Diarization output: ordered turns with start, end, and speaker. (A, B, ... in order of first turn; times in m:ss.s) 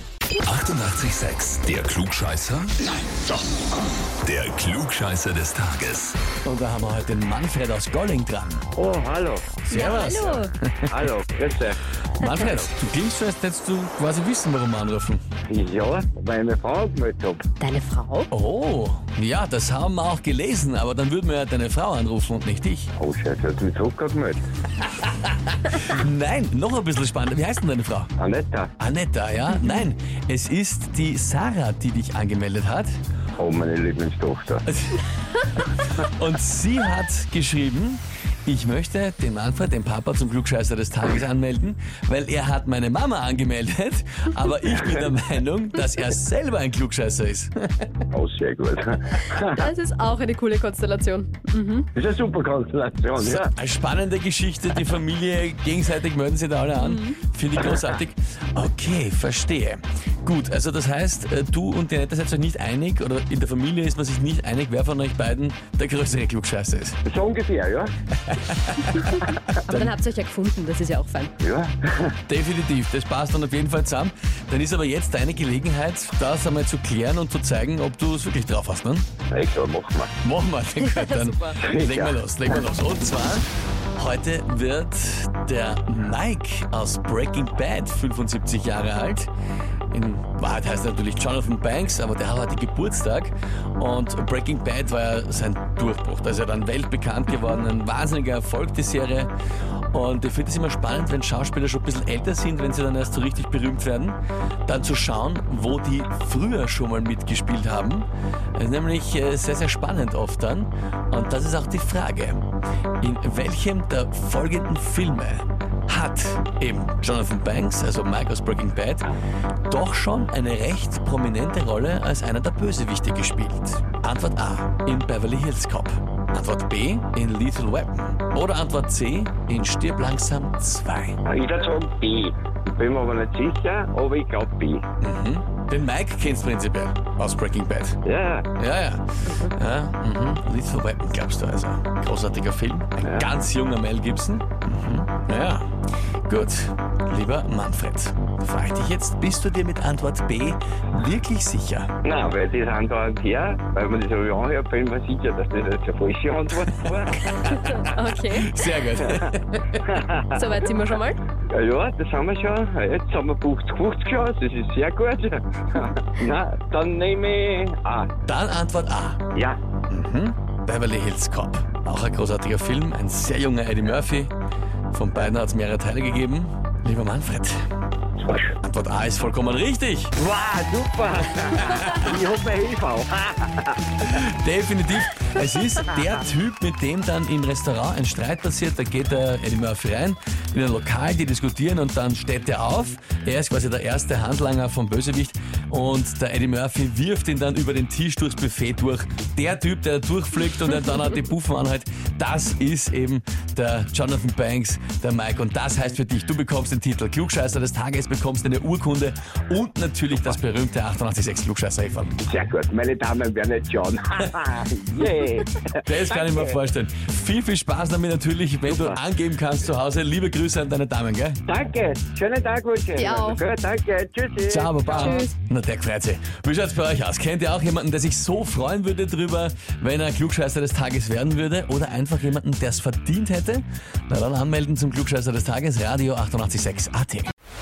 0:00.4-0:02.7 A
0:04.2-0:06.1 A
0:06.4-0:08.6 B
0:08.7-0:09.5 C
0:09.6-0:10.9 B
0:09.7-0:10.5 D
0:10.9-0:11.8 C
0:12.2-0:15.2 B
0:12.2-0:12.6 D
0:15.5-0:17.4 C
0:17.6-0:18.3 D
0:18.3-0:22.9 B
0:23.0-0:24.4 C
0:24.8-0:28.1 B
0:28.2-0:28.7 C
0:28.8-0:32.9 B
0:33.4-0:34.6 C
0:34.6-0:35.0 B
0:35.6-0:47.9 B
0:44.7-0:45.1 C
0:48.1-0:49.7 C
0:49.4-0:51.9 D
0:51.9-0:53.5 C
0:53.2-1:07.0 B
0:56.8-0:57.2 D
1:07.0-1:07.9 C
1:08.2-1:10.0 B
1:09.4-1:11.3 D
1:11.4-1:12.1 C
1:12.3-1:19.1 B
1:19.3-1:20.1 C
1:20.2-1:29.3 B
1:20.8-1:21.5 D
1:21.6-1:22.2 C
1:29.9-1:39.3 B
1:39.9-1:52.4 B
1:53.0-1:59.1 B
1:59.7-2:11.2 B
2:11.2-2:14.8 C
2:15.0-2:18.0 B
2:18.0-2:18.5 C
2:18.6-2:25.6 B
2:23.0-2:23.3 C
2:26.3-2:31.9 B
2:32.0-2:37.3 C
2:37.2-2:39.8 B
2:37.3-2:38.8 D
2:39.0-2:39.3 C
2:39.8-2:40.4 C
2:40.3-2:41.2 D
2:41.5-2:48.1 C
2:48.2-2:49.3 B
2:49.3-2:49.6 C
2:49.9-2:54.3 B
2:54.9-2:57.6 B
2:58.2-2:58.6 C
2:58.6-3:00.1 B
3:00.2-3:03.8 C
3:01.5-3:02.2 B
3:04.0-3:32.2 B
3:32.2-3:36.6 C
3:35.8-3:41.4 B
3:38.7-3:39.0 C
3:41.5-3:45.2 C
3:43.0-3:43.4 D
3:44.5-3:57.3 B
3:44.9-3:45.3 D